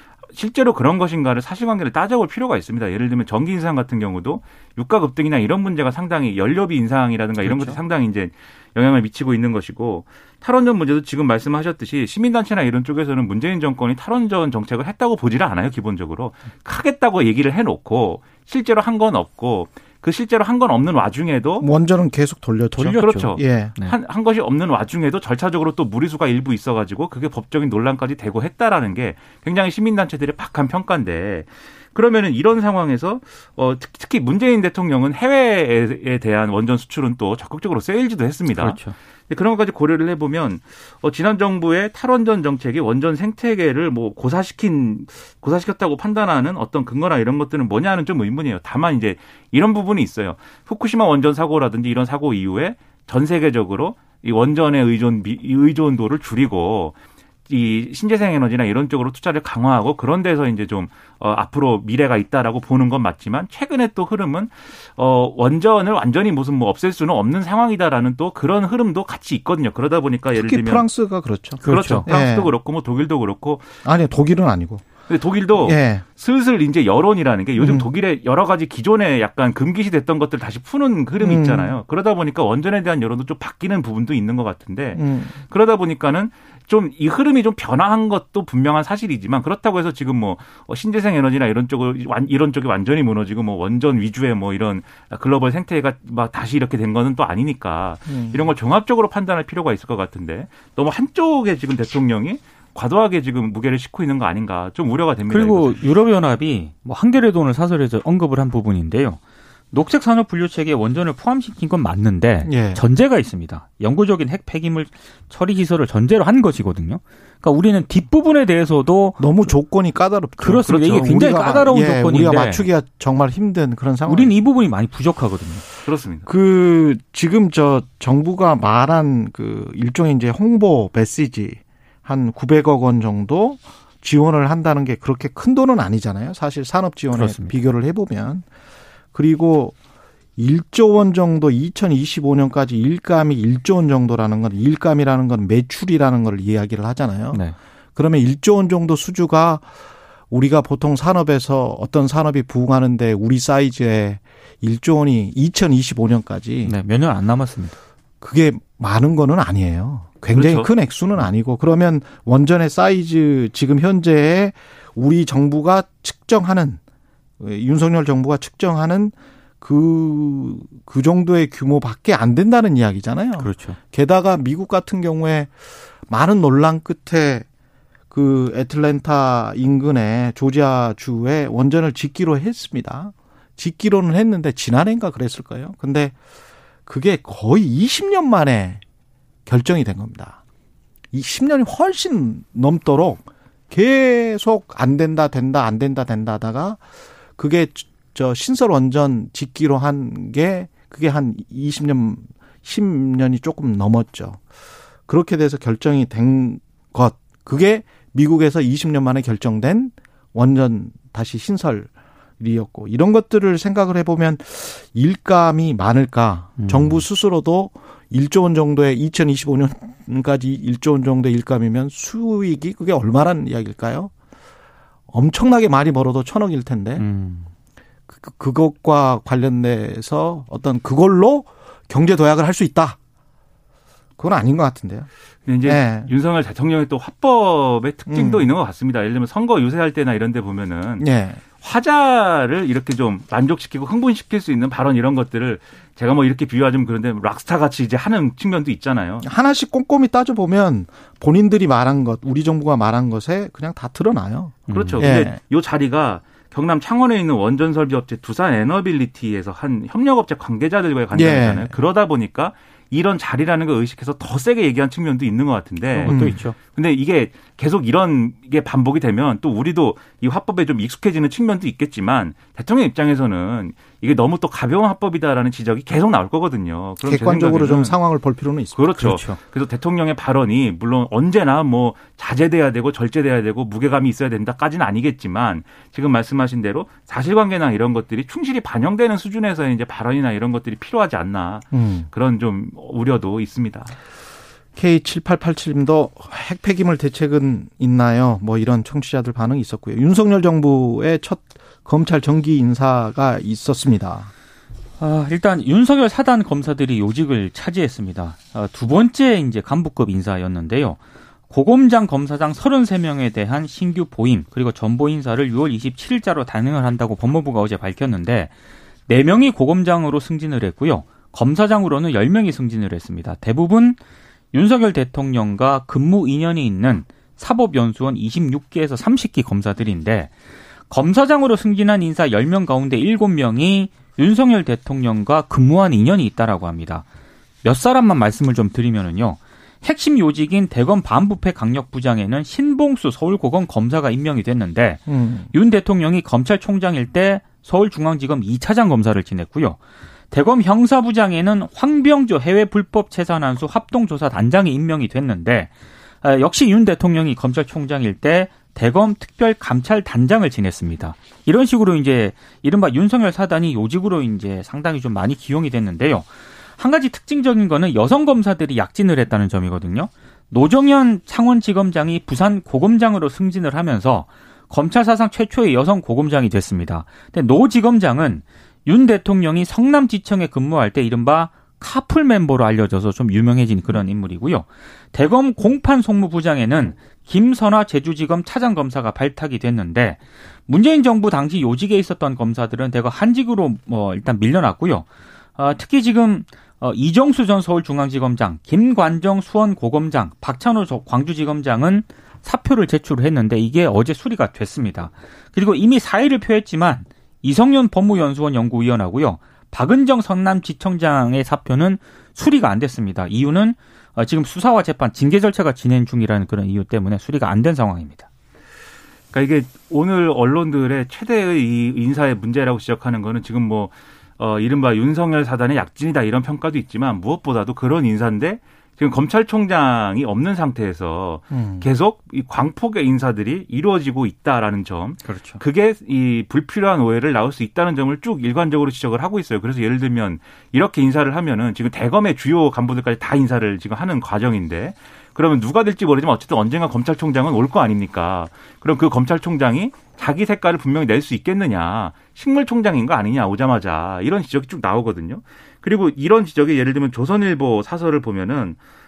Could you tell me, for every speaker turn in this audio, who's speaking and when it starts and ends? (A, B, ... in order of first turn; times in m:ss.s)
0:00.3-0:21.7 A
0:07.4-0:07.8 B
0:21.6-0:23.8 C
0:22.8-0:23.9 B
0:23.0-0:57.0 A
0:38.6-0:39.0 B
0:57.5-1:10.9 A
1:10.3-1:12.5 C
1:11.6-1:12.1 B
1:11.6-1:13.7 A
1:13.8-1:14.9 C
1:15.1-1:45.8 A
1:15.6-1:16.0 C
1:17.6-1:17.9 C
1:21.2-1:21.8 C
1:25.0-1:25.4 C
1:38.1-1:38.4 C
1:45.3-1:49.2 B
1:49.7-1:59.5 B
1:52.4-1:52.8 C
1:59.2-2:04.3 C
2:00.4-2:02.7 B
2:00.7-2:01.1 A
2:04.1-2:05.6 B
2:05.9-2:06.3 A
2:06.3-2:18.4 C
2:17.1-2:17.6 B
2:19.1-2:19.8 C
2:20.4-2:27.4 C
2:28.0-2:29.7 C
2:30.3-2:36.7 C
2:36.7-2:37.8 B
2:38.2-2:46.8 C
2:40.3-2:40.7 A
2:47.4-2:55.5 C
2:53.4-2:53.8 B
2:56.1-2:57.5 C
2:58.1-3:06.2 C
3:06.9-3:08.8 C
3:09.5-3:10.4 C
3:11.1-3:16.8 C
3:17.4-3:24.4 C
3:25.1-3:44.1 C
3:36.6-3:37.0 B
3:45.1-3:47.0 C
3:47.0-3:47.5 B
3:48.1-3:53.0 C
3:54.2-3:55.1 C
3:55.5-4:01.1 A
3:55.6-3:56.1 C
3:58.1-3:58.5 C
4:01.0-4:01.4 C
4:01.6-4:09.3 A
4:09.2-4:15.4 C
4:14.7-4:15.0 B
4:14.7-4:38.0 A
4:21.1-4:21.7 C
4:25.9-4:26.6 B
4:26.1-4:26.4 C
4:37.0-4:39.2 C
4:38.8-4:53.9 A
4:39.0-4:39.4 B
4:51.7-4:52.1 C
4:54.8-5:04.3 C
5:05.0-5:11.0 B
5:11.5-5:18.5 B
5:19.1-5:24.0 B
5:24.5-5:30.3 B
5:30.9-5:37.0 B
5:37.6-5:49.8 B
5:45.1-5:45.5 C
5:50.3-5:55.7 B
5:56.2-6:35.1 B
6:35.6-6:58.3 B
6:59.3-7:38.8 A
7:11.5-7:11.8 C
7:15.3-7:15.6 B